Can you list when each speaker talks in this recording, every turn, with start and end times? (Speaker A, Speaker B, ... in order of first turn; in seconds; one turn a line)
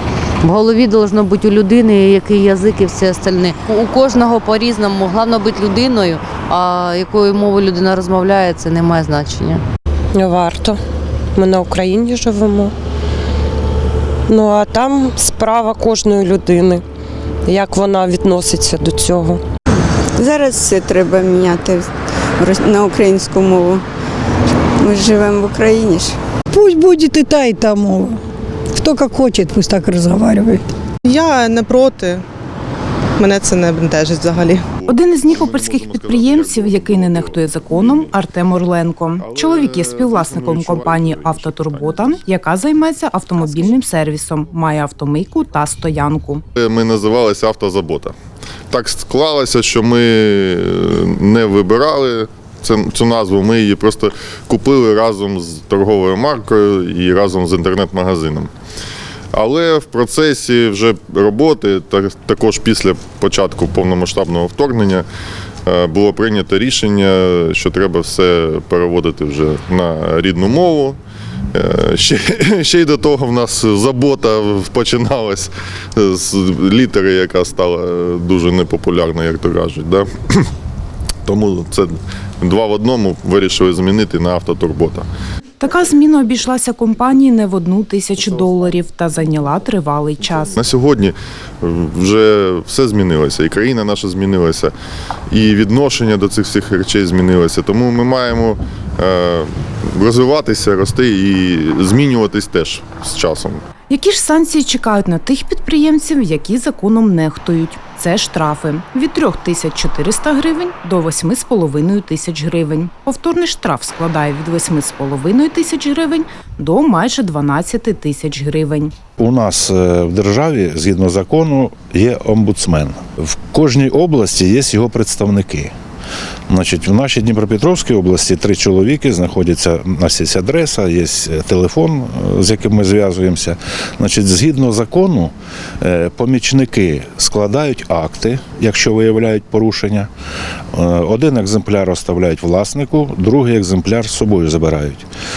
Speaker A: 0.4-9.6
Speaker B: 10.1-10.8
Speaker B: 11.3-12.7
Speaker B: 14.3-16.8
Speaker B: 17.5-19.4
Speaker C: 20.2-23.8
Speaker C: 24.8-26.2
Speaker D: 26.5-28.2
Speaker D: 28.7-30.7
Speaker E: 31.1-32.2
Speaker E: 33.2-34.7
Speaker F: 34.7-38.1
Speaker G: 34.9-46.4
Speaker F: 39.2-42.2
Speaker F: 46.5-48.1
Speaker F: 48.7-58.5
Speaker F: 59.3-65.0
Speaker F: 65.7-71.0
Speaker F: 71.5-80.5
Speaker F: 81.2-85.1
Speaker G: 85.6-90.5
Speaker F: 90.5-94.7
Speaker F: 95.3-103.6
Speaker G: 103.9-118.9
Speaker H: 119.2-125.7
Speaker H: 126.5-140.1
Speaker H: 140.7-145.1